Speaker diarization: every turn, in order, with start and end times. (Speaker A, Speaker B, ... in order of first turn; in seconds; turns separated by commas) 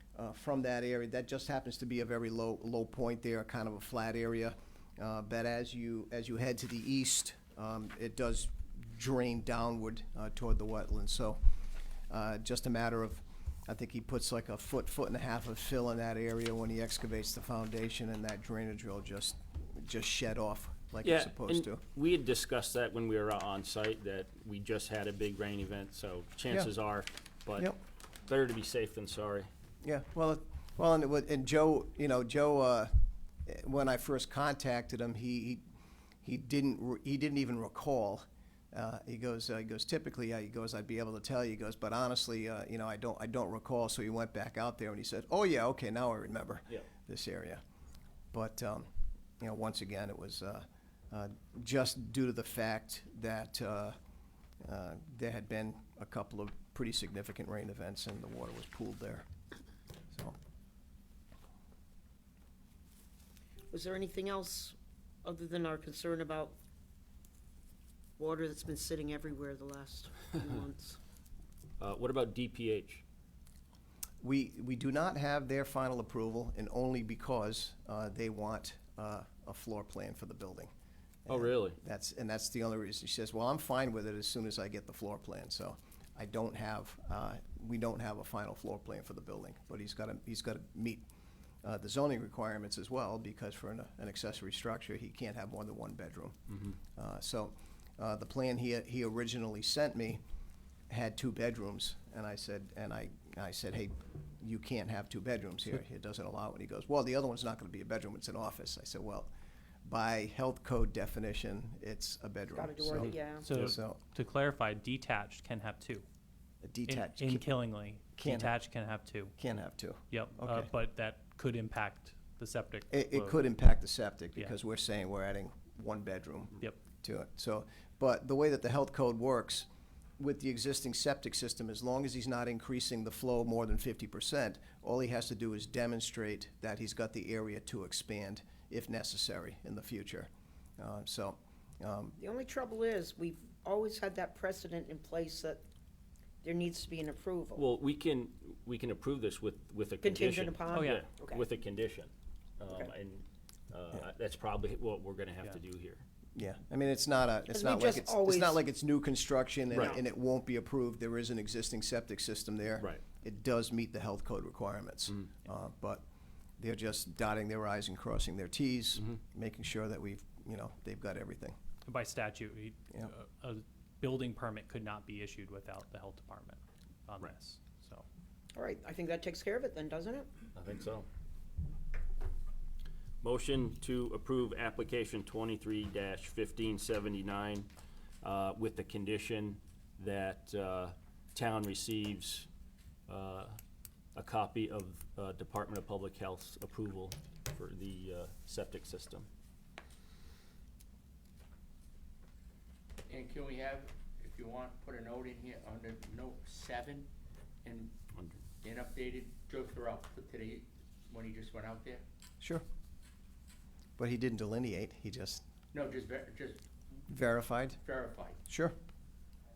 Speaker A: 0.1-11.4, Speaker A: 12.1-21.8, Speaker B: 21.0-29.5, Speaker A: 29.8-32.9, Speaker A: 33.5-35.6, Speaker A: 36.2-47.6, Speaker A: 48.3-54.0, Speaker A: 54.6-59.2, Speaker C: 63.7-66.6, Speaker C: 68.2-71.0, Speaker B: 71.8-73.0, Speaker A: 74.2-80.7, Speaker A: 81.2-91.0, Speaker B: 81.3-81.8, Speaker A: 91.6-100.2, Speaker A: 100.9-109.3, Speaker A: 109.8-114.0, Speaker C: 112.5-113.5, Speaker D: 113.4-116.0, Speaker A: 116.6-117.6, Speaker D: 116.8-119.3, Speaker A: 118.1-118.5, Speaker A: 119.4-120.7, Speaker D: 120.1-123.5, Speaker A: 122.9-129.7, Speaker A: 130.2-142.2, Speaker C: 142.2-145.6, Speaker C: 146.4-147.6, Speaker B: 147.6-156.0, Speaker C: 150.0-151.4, Speaker D: 150.7-151.1, Speaker A: 156.3-166.0, Speaker C: 157.5-158.6, Speaker B: 159.7-160.0, Speaker A: 166.6-171.6, Speaker D: 171.8-178.1, Speaker C: 178.5-180.3, Speaker B: 180.5-181.1, Speaker B: 183.2-187.7, Speaker B: 188.2-192.5, Speaker B: 193.1-193.6, Speaker B: 194.1-199.3, Speaker E: 203.1-207.1, Speaker E: 207.6-207.9, Speaker B: 208.1-208.4, Speaker E: 208.6-212.0, Speaker A: 212.4-212.6, Speaker A: 214.0-215.4, Speaker E: 215.7-216.6, Speaker A: 217.1-217.8, Speaker E: 217.8-218.4, Speaker A: 218.5-218.7